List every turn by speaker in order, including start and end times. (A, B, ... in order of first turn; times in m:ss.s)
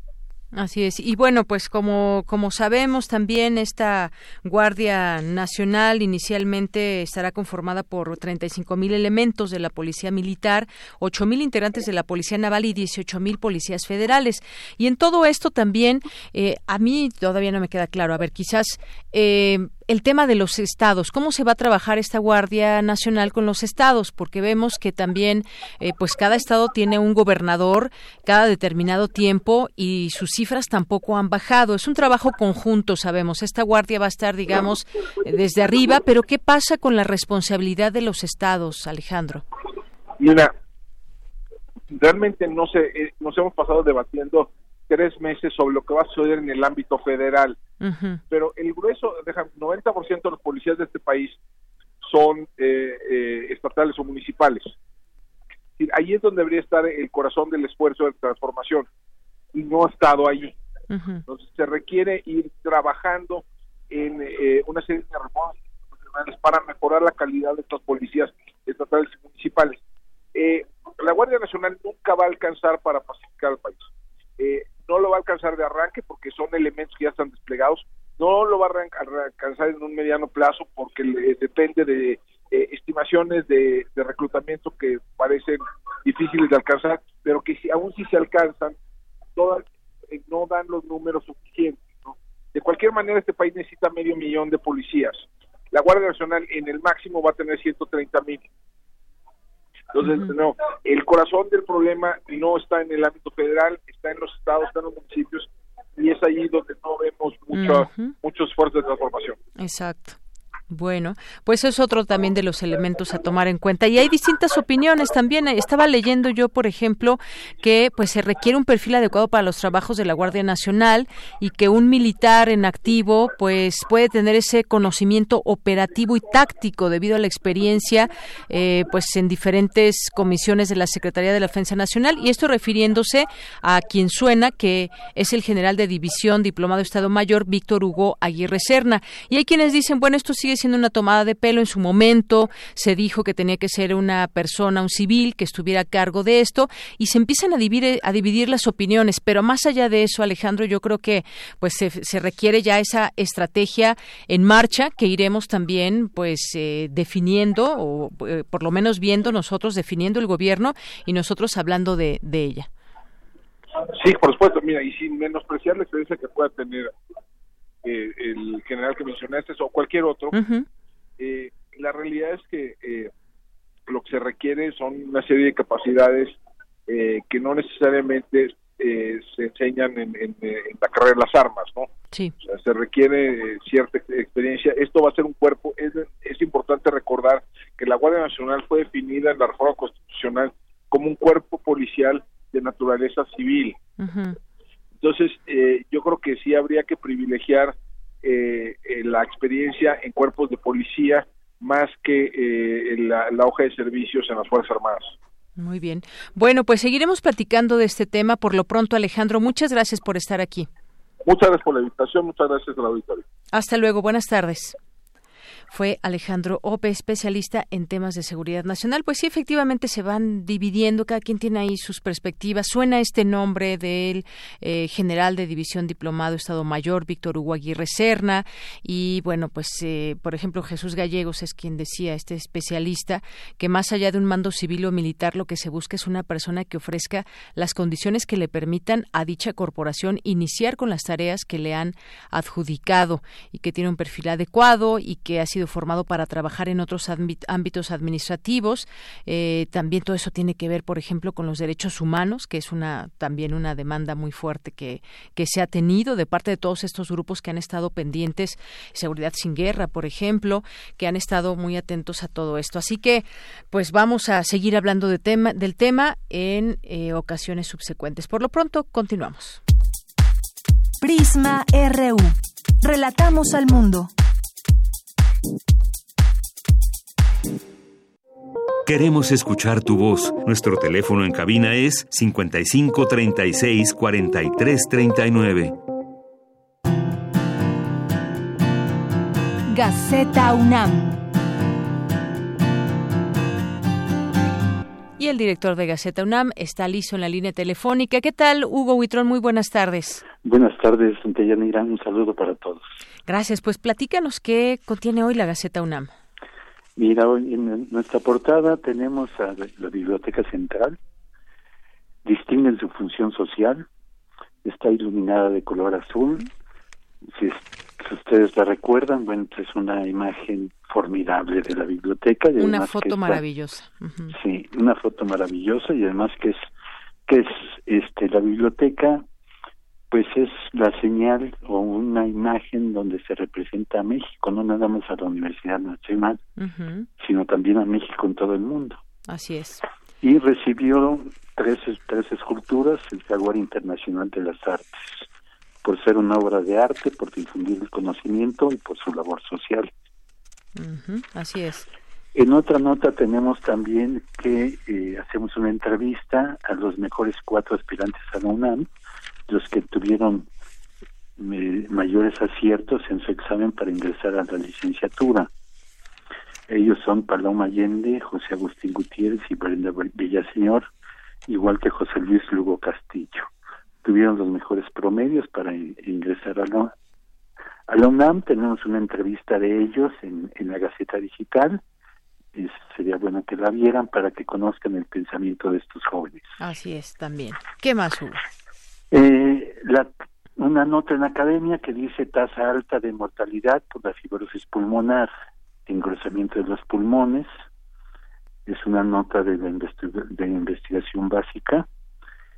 0:00.5-0:39.4 A
0:40.2-0:40.5 B
0:41.9-0:47.6 B
0:47.8-0:48.2 A
0:48.3-0:51.4 B
0:52.0-0:54.7 B
0:55.8-0:58.8 B
0:59.5-1:00.5 B
1:00.9-1:01.2 A
1:01.3-1:09.8 B
1:10.3-1:13.9 B
1:14.4-1:28.7 B
1:29.4-1:38.4 B
1:39.9-1:45.4 B
1:40.0-1:40.3 A
1:46.0-1:49.4 B
1:47.5-1:48.1 A
1:49.6-1:50.2 A
1:50.7-2:42.7 A
2:43.9-2:46.9 B
2:47.8-2:50.3 B
2:50.3-2:50.6 A
2:51.2-2:53.1 B
2:53.9-2:56.3 B
2:56.9-3:01.9 B
3:02.4-3:13.7 B
3:14.0-3:14.4 A
3:15.0-3:25.1 B
3:25.6-3:30.7 A
3:31.2-3:33.2 B
3:33.5-3:34.8 A
3:35.7-4:29.6 A
4:31.0-4:34.1 C
4:38.8-4:45.8 D
4:49.7-4:51.2 C
4:55.2-5:00.2 A
5:00.4-5:02.9 E
5:03.3-5:06.1 A
5:07.0-5:11.0 E
5:12.2-5:13.8 E
5:14.6-5:16.5 E
5:17.3-5:23.4 E
5:22.6-5:24.3 A
5:24.3-5:26.6 E
5:27.3-5:29.2 E
5:30.1-5:36.4 E
5:36.6-5:37.1 A
5:37.2-5:39.0 E
5:39.3-5:39.8 A
5:40.2-5:45.2 E
5:45.8-5:49.9 E
5:50.8-5:51.9 A
5:52.3-5:58.9 E
5:59.5-6:00.5 E
6:01.4-6:05.5 E
6:06.7-6:10.8 E
6:11.5-6:13.5 E
6:14.0-6:16.9 E
6:17.9-6:21.8 E
6:22.5-6:26.5 E
6:26.6-6:28.4 A
6:29.1-6:35.3 E
6:35.9-6:37.5 E
6:38.7-6:41.8 E